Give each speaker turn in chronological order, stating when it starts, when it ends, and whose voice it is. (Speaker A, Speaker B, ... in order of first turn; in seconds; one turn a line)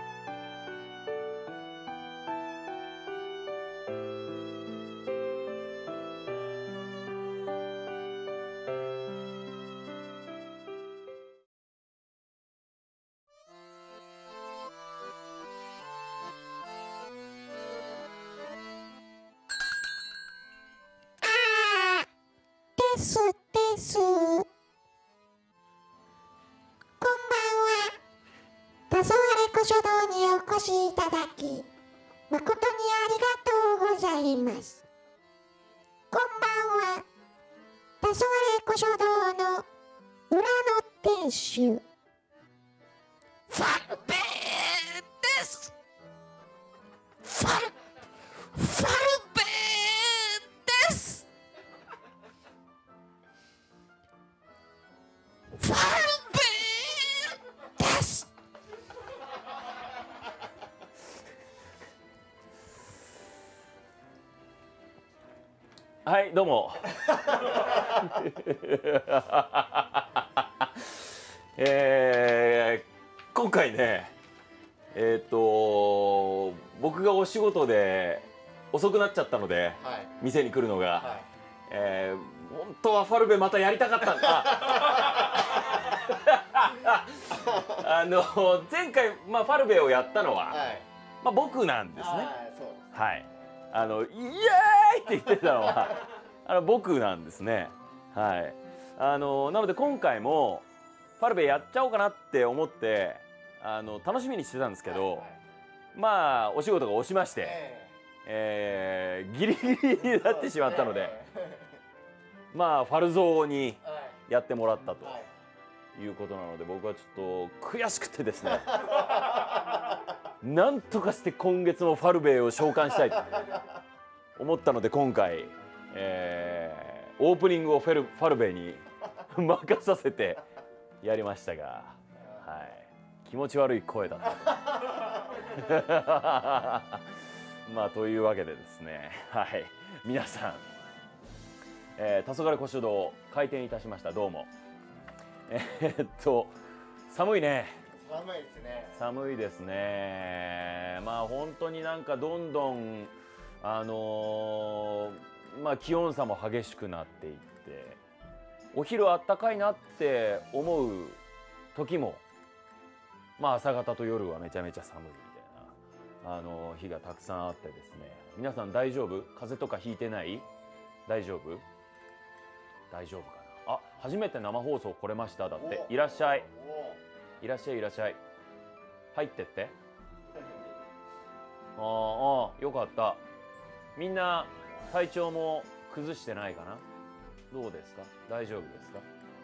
Speaker A: 21.2-22.1
Speaker A: 22.8-24.5
Speaker A: 27.0-28.0
Speaker A: 28.9-31.7
Speaker A: 32.3-34.9
Speaker A: 36.1-37.0
Speaker A: 38.0-39.7
Speaker A: 40.3-41.8
Speaker A: 43.5-45.7
Speaker A: 47.2-47.7
Speaker A: 48.5-51.2
Speaker A: 55.6-58.3
Speaker B: 66.0-74.1
Speaker B: 74.9-90.7
Speaker C: 79.8-80.1
Speaker C: 81.0-81.3
Speaker C: 87.4-87.8
Speaker C: 90.5-90.8
Speaker B: 91.2-92.3
Speaker C: 91.9-93.1
Speaker B: 92.9-100.7
Speaker B: 101.2-105.3
Speaker C: 104.8-105.4
Speaker B: 105.9-107.6
Speaker C: 107.4-108.0
Speaker B: 108.2-111.2
Speaker C: 110.3-111.8
Speaker B: 112.5-115.2
Speaker C: 115.0-115.3
Speaker B: 115.9-119.0
Speaker C: 118.9-119.4
Speaker B: 120.4-123.6
Speaker B: 124.4-130.4
Speaker B: 131.0-140.6
Speaker B: 142.0-144.5
Speaker B: 145.5-146.5
Speaker B: 147.1-147.8
Speaker C: 147.9-149.0
Speaker B: 148.9-158.0
Speaker B: 158.7-161.2
Speaker B: 161.7-162.2
Speaker B: 163.4-170.5
Speaker B: 171.1-171.6
Speaker B: 172.9-176.5
Speaker C: 175.6-177.0
Speaker B: 177.4-178.2
Speaker B: 179.1-179.8
Speaker B: 181.8-183.2
Speaker B: 183.9-186.8
Speaker B: 187.5-189.1